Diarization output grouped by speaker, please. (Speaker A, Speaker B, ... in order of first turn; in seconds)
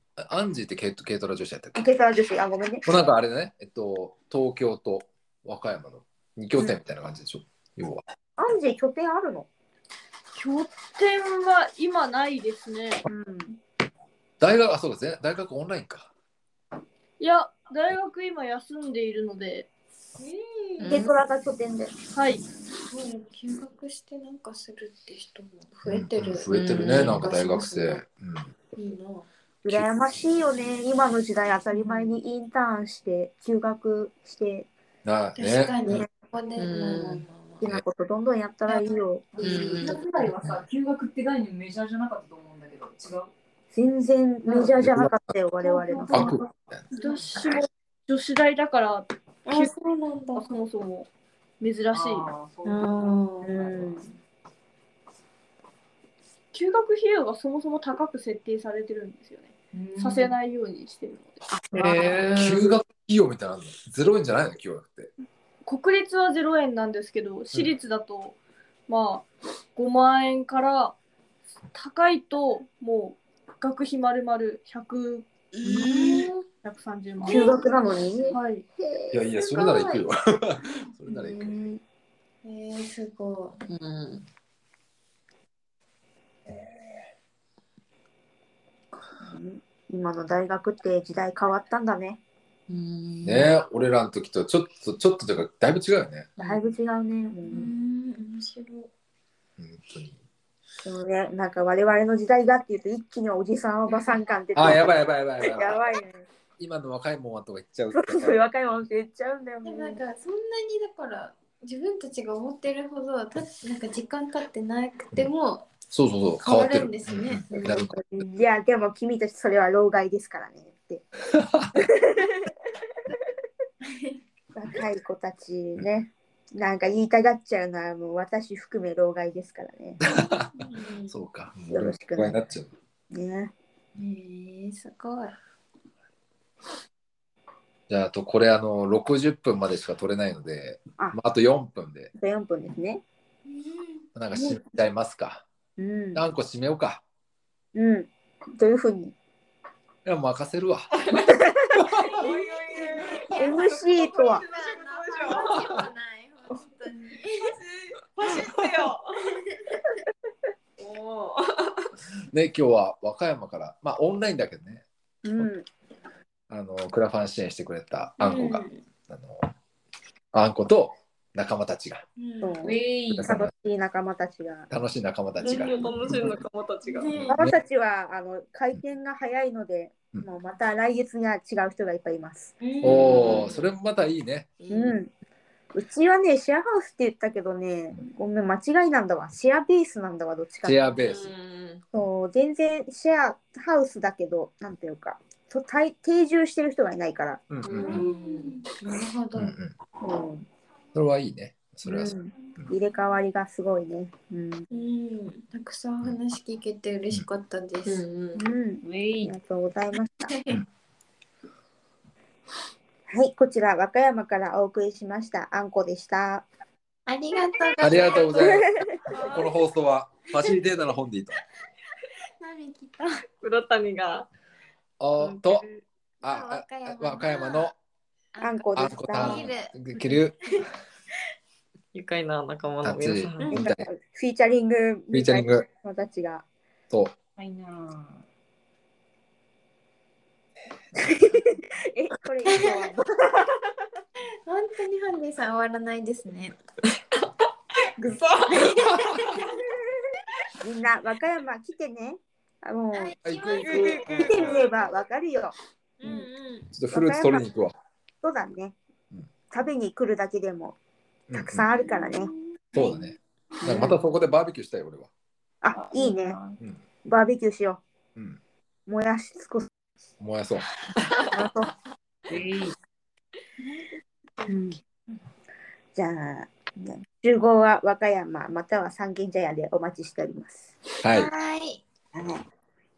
Speaker A: 0.2-1.8, 2.8-8.0, 14.4-16.1, 25.8-28.5, 35.0-36.0, 44.8-45.2, 46.1-46.9, 61.7-65.1, 79.1-81.8, 93.2-96.3, 99.6-100.2, 104.5-105.8, 106.6-108.4, 115.9-118.0, 121.3-121.7, 130.0-132.7, 137.9-142.1, 144.1-145.4, 146.1-147.0, 150.0-150.9, 151.8-152.1, 155.5-155.8, 162.3-164.8, 166.5-169.5, 170.3-172.0, 173.1-173.5, 174.7-176.3, 182.8-184.5, 190.6-191.3, 197.5-198.1, 199.3-199.7, 200.9-202.6, 217.8-221.4, 225.0-225.7, 226.2-227.7, 228.8-230.6, 232.8-233.8, 235.1-235.6, 249.0-249.3, 253.2-254.6, 256.7-257.7, 261.3-261.6, 262.7-265.1, 270.2-270.7, 281.0-281.3
Speaker B: 1.8-2.8, 8.4-9.5, 13.1-13.6, 20.9-21.9, 29.6-34.7, 37.6-39.5, 43.7-46.4, 53.4-54.0, 77.2-79.4, 89.2-92.2, 96.4-97.7, 100.8-106.2, 107.9-110.0, 117.5-121.0, 121.7-122.3, 124.5-130.0, 131.7-132.4, 133.1-133.5, 142.1-143.0, 145.8-146.2, 147.7-149.1, 153.4-154.4, 165.2-165.6, 172.4-174.7, 177.3-182.5, 184.7-185.1, 185.7-190.8, 191.9-197.4, 200.0-200.4, 201.8-204.7, 208.3-210.3, 213.1-216.4, 218.3-218.9, 228.4-229.5, 233.6-236.4, 241.0-243.4, 250.6-255.5, 256.9-257.4, 258.2-258.8, 259.5-260.8, 261.3-262.3, 263.6-264.0, 265.6-266.4, 267.0-267.8, 268.9-269.7, 271.3-271.7, 274.5-274.8, 275.9-280.7, 282.1-282.4
Speaker C: 10.3-13.0, 17.2-19.7, 22.1-22.4, 46.9-49.7, 50.3-51.1, 51.6-52.3, 56.5-61.4, 65.7-68.4, 68.9-71.0, 71.7-77.6, 78.3-78.6, 256.0-256.7
Speaker D: 20.2-21.1, 22.8-28.0, 28.7-29.3, 31.7-32.2, 35.4-37.6, 39.4-39.8, 45.6-46.4, 49.5-50.5, 52.6-53.8, 75.6-76.4, 77.2-78.3, 79.3-80.1, 81.1-81.7, 82.4-83.6, 97.4-98.9, 109.6-115.7, 116.4-117.5, 123.8-124.2, 130.1-131.1, 133.9-135.4, 143.5-144.0, 152.1-159.8, 172.2-172.5, 176.9-177.3, 182.6-183.5, 197.7-199.5, 204.7-208.1, 210.3-210.6, 217.1-219.5, 222.4-223.2, 226.2-227.7, 228.3-229.8, 233.4-233.6, 242.4-242.9, 244.4-246.6, 248.5-248.9, 252.9-254.7, 281.1-281.8
Speaker E: 20.8-21.1, 26.5-27.3, 36.6-37.2, 39.4-40.0, 83.7-84.2, 92.7-93.5, 152.0-153.6, 154.3-155.6, 158.1-159.1, 160.8-161.7, 175.4-177.3, 182.8-183.6, 184.6-184.9, 190.9-191.8, 197.6-198.6, 207.8-208.4, 223.4-224.3, 231.9-233.6, 248.0-248.7, 253.8-254.1
Speaker F: 39.4-43.3, 51.9-53.1, 59.7-60.4, 172.6-173.3, 208.8-209.3, 237.4-238.2, 272.3-272.8